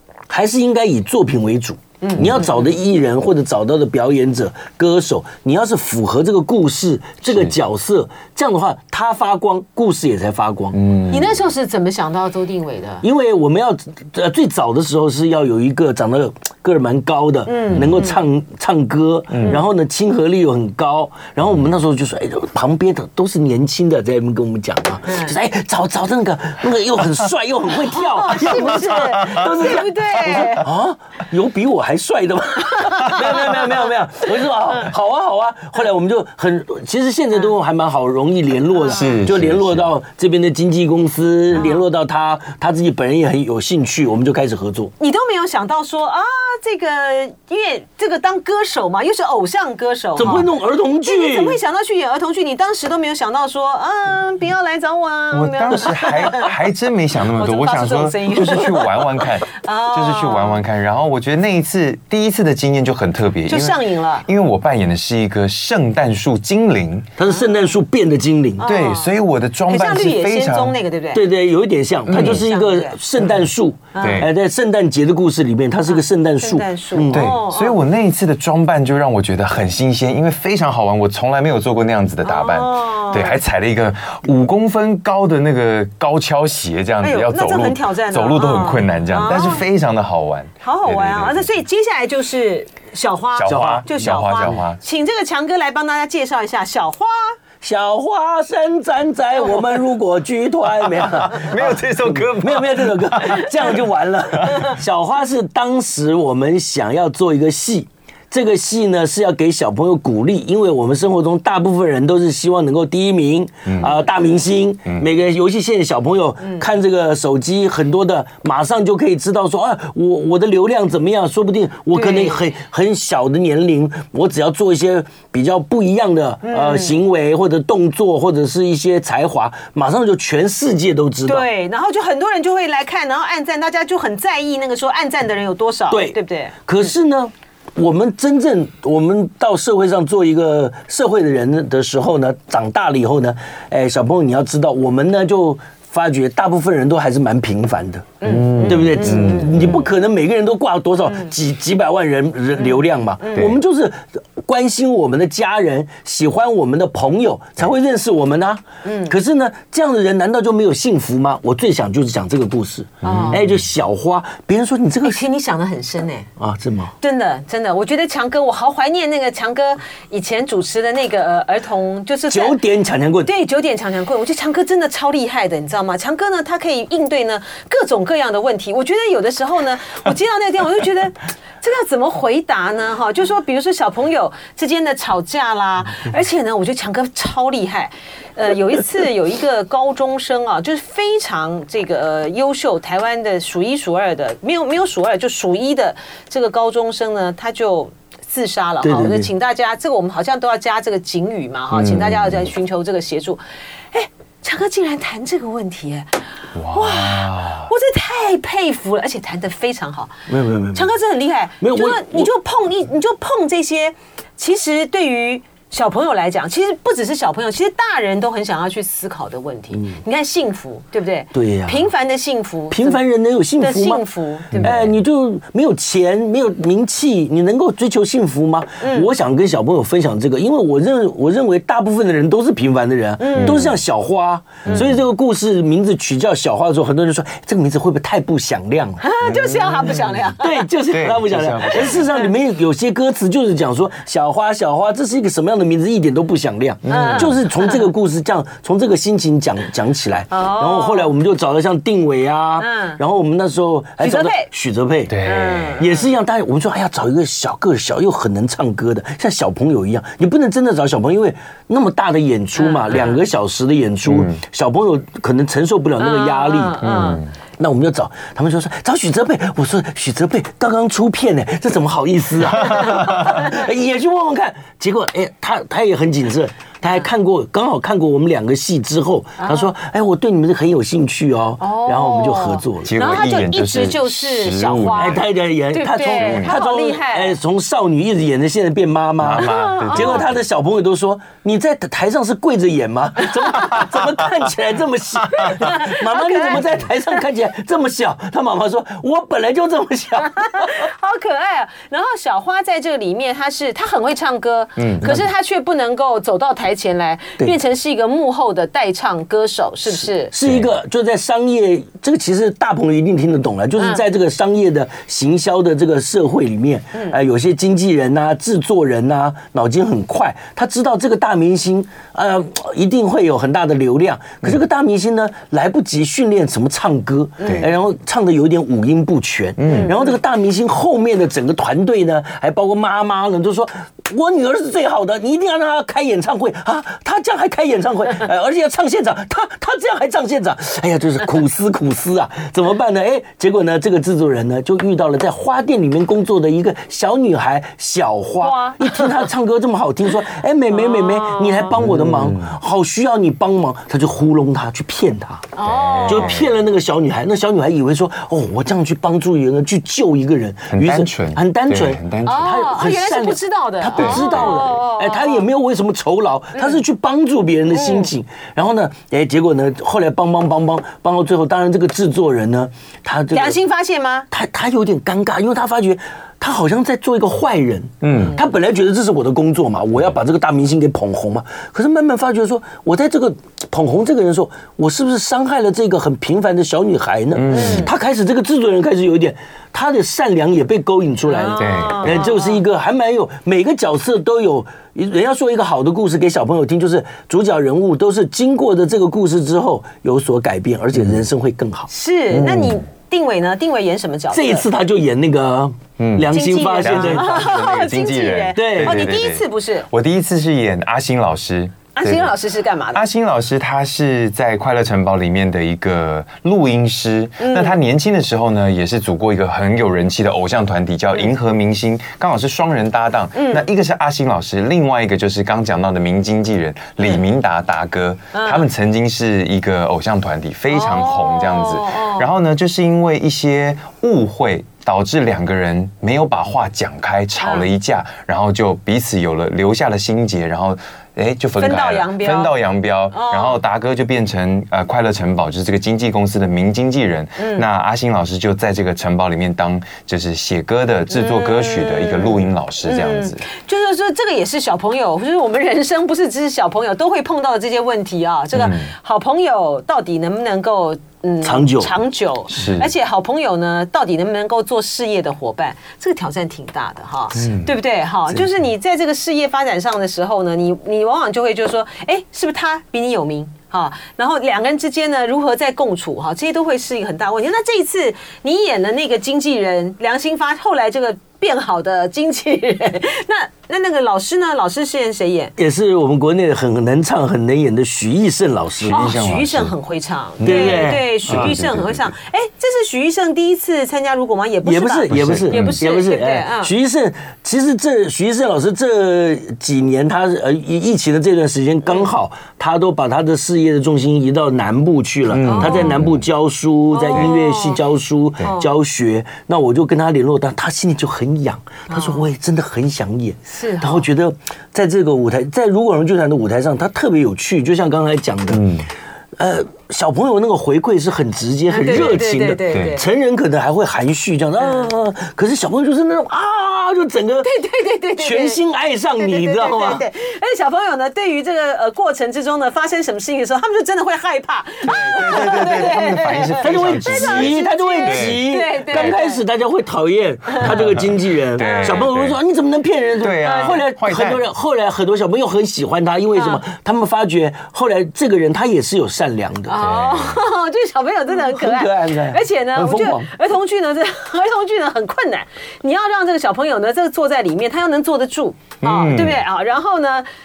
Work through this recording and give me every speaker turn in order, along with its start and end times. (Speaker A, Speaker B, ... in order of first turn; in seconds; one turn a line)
Speaker A: 0.3-10.8
Speaker B: 2.0-2.7
Speaker C: 10.7-11.4
Speaker B: 11.1-13.1
Speaker A: 13.0-44.9
Speaker B: 17.5-18.2
Speaker C: 17.7-18.0
Speaker C: 19.3-19.6
Speaker B: 25.1-25.3
Speaker B: 27.9-30.7
Speaker C: 28.5-29.5
Speaker C: 30.1-30.6
Speaker B: 32.8-33.6
Speaker B: 38.8-39.2
Speaker C: 38.9-39.9
Speaker B: 41.5-41.8
Speaker B: 45.0-50.5
Speaker A: 50.2-51.6
Speaker B: 51.0-56.5
Speaker C: 55.3-67.1
Speaker B: 57.4-60.6
Speaker B: 63.5-64.2
Speaker A: 67.2-68.6
Speaker B: 68.6-69.1
Speaker C: 68.6-70.8
Speaker B: 69.7-71.3
Speaker A: 71.1-77.3
Speaker C: 72.1-72.4
Speaker B: 72.1-73.0
Speaker B: 73.9-74.3
Speaker C: 74.0-74.3
Speaker B: 75.8-77.8
Speaker C: 77.1-91.5
Speaker B: 82.2-83.4
Speaker B: 87.0-89.7
Speaker B: 90.6-97.3
Speaker C: 93.3-94.8
Speaker A: 93.5-93.8
Speaker A: 97.6-131.5
Speaker C: 101.0-103.8
Speaker B: 121.9-122.4
Speaker B: 126.4-127.0
Speaker B: 131.2-136.9
Speaker A: 135.9-165.2
Speaker B: 148.2-149.9
Speaker C: 148.2-149.8
Speaker B: 152.5-153.5
Speaker B: 158.8-159.1
Speaker B: 163.0-163.4
Speaker C: 163.0-163.6
Speaker B: 165.0-166.3
Speaker A: 166.4-166.9
Speaker B: 167.0-172.6
Speaker A: 172.3-173.3
Speaker B: 173.2-210.2
Speaker A: 198.8-199.3
Speaker C: 201.7-202.5
Speaker C: 206.5-207.7
Speaker A: 210.3-210.9
Speaker B: 210.7-223.0
Speaker A: 211.6-212.3
Speaker A: 221.3-221.9
Speaker A: 222.7-239.1
Speaker B: 223.6-224.7
Speaker C: 224.6-224.9
Speaker B: 228.8-229.1
Speaker B: 233.2-233.7
Speaker C: 233.3-233.7
Speaker C: 234.6-235.0
Speaker B: 239.0-240.7
Speaker C: 239.2-240.3
Speaker A: 240.4-255.2
Speaker C: 240.9-242.1
Speaker C: 246.8-247.3
Speaker B: 246.9-247.9
Speaker B: 250.3-251.1
Speaker B: 252.6-253.0
Speaker B: 254.0-254.5
Speaker C: 255.1-255.8
Speaker B: 255.2-256.1
Speaker A: 255.8-266.8
Speaker B: 262.6-263.2
Speaker C: 264.1-264.4
Speaker B: 266.0-267.2
Speaker C: 266.8-267.3
Speaker A: 267.6-283.0
Speaker B: 272.5-273.7
Speaker C: 272.7-273.4
Speaker B: 279.4-279.7
Speaker B: 281.6-287.4
Speaker C: 282.8-285.2
Speaker A: 284.9-300.7
Speaker C: 286.1-286.6
Speaker C: 289.2-290.4
Speaker B: 289.4-290.2
Speaker B: 293.4-293.9
Speaker B: 295.3-297.2
Speaker B: 300.2-310.3
Speaker C: 304.8-305.1
Speaker A: 310.0-355.5
Speaker C: 310.4-310.7
Speaker B: 313.8-314.0
Speaker B: 327.4-327.7
Speaker C: 327.4-327.7
Speaker C: 329.6-329.9
Speaker B: 329.7-330.1
Speaker B: 348.4-349.3
Speaker B: 350.7-351.7
Speaker C: 351.8-352.5
Speaker B: 355.5-356.3
Speaker C: 355.6-356.5
Speaker A: 356.1-373.6
Speaker C: 360.7-362.5
Speaker B: 362.2-365.5
Speaker C: 363.9-364.6
Speaker B: 366.5-366.8
Speaker B: 367.7-368.1
Speaker B: 373.3-374.3
Speaker A: 374.3-402.8
Speaker C: 378.0-378.4
Speaker C: 387.3-387.9
Speaker B: 387.5-387.9
Speaker B: 391.3-392.6
Speaker C: 391.6-392.2
Speaker C: 400.9-401.2
Speaker B: 401.9-404.6
Speaker A: 404.3-407.4
Speaker C: 406.0-412.4
Speaker B: 406.3-409.9
Speaker A: 408.6-409.1
Speaker B: 411.9-413.0
Speaker C: 412.9-453.4
Speaker B: 417.4-417.8
Speaker B: 423.3-423.7
Speaker B: 428.3-428.7
Speaker B: 430.7-432.3
Speaker B: 437.4-437.7
Speaker B: 441.6-442.6
Speaker B: 443.1-443.6
Speaker B: 447.4-447.6
Speaker B: 451.1-485.5
Speaker C: 458.5-458.9
Speaker A: 461.4-461.9
Speaker C: 462.5-462.9
Speaker C: 467.3-467.7
Speaker A: 485.6-489.0
Speaker C: 488.8-489.7
Speaker B: 488.9-496.7
Speaker C: 490.4-492.1
Speaker A: 490.4-491.5
Speaker A: 494.6-518.7
Speaker C: 495.1-495.8
Speaker B: 501.9-502.1
Speaker C: 505.3-506.2
Speaker B: 505.4-506.0
Speaker B: 506.9-507.8
Speaker B: 508.4-508.7
Speaker B: 511.9-512.2
Speaker B: 513.5-514.1
Speaker C: 518.5-518.9
Speaker A: 519.4-527.5
Speaker B: 521.7-523.1
Speaker C: 521.9-523.0
Speaker B: 524.6-524.9
Speaker B: 527.4-528.6
Speaker A: 528.2-530.0
Speaker B: 529.2-539.4
Speaker C: 534.8-538.4
Speaker A: 536.6-549.8
Speaker B: 540.5-540.8
Speaker C: 540.6-542.4
Speaker B: 541.6-542.0
Speaker C: 543.2-544.4
Speaker B: 543.3-543.8
Speaker B: 546.3-546.6
Speaker B: 549.7-560.2
Speaker C: 549.8-550.4
Speaker A: 551.3-553.3
Speaker C: 558.8-559.4